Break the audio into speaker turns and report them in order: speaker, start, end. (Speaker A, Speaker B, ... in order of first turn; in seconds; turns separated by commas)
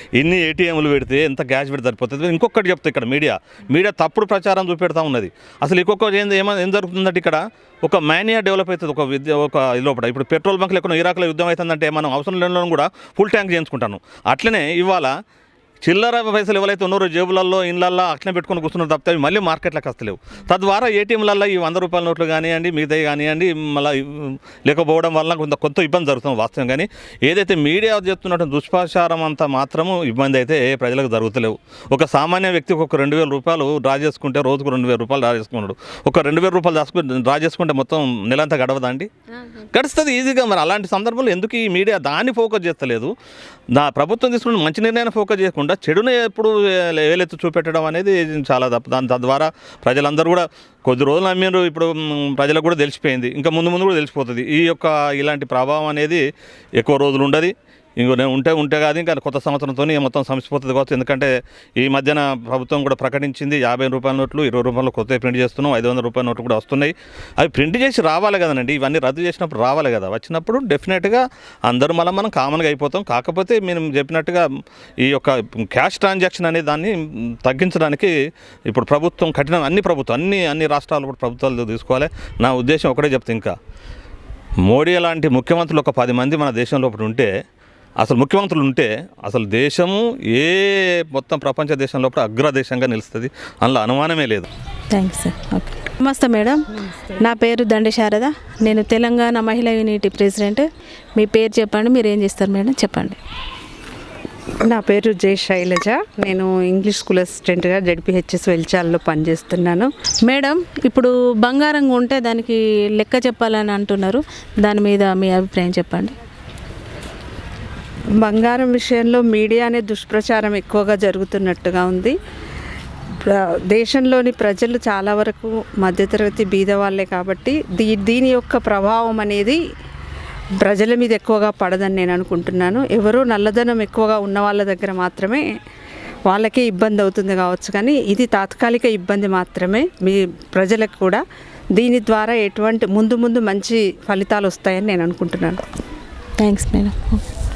Speaker A: 0.2-15.1, Speaker A: 15.8-39.1, Speaker A: 39.7-43.1, Speaker A: 43.7-56.2, Speaker A: 56.8-74.4, Speaker A: 75.0-76.9, Speaker A: 77.4-78.1, Speaker A: 78.7-83.5, Speaker A: 84.7-87.3, Speaker A: 88.0-94.5, Speaker B: 94.9-103.2, Speaker C: 104.7-109.9, Speaker B: 110.3-116.1, Speaker C: 118.2-122.1, Speaker C: 123.2-129.6, Speaker C: 130.6-135.4, Speaker C: 136.3-141.2, Speaker C: 141.8-145.6, Speaker B: 146.4-147.2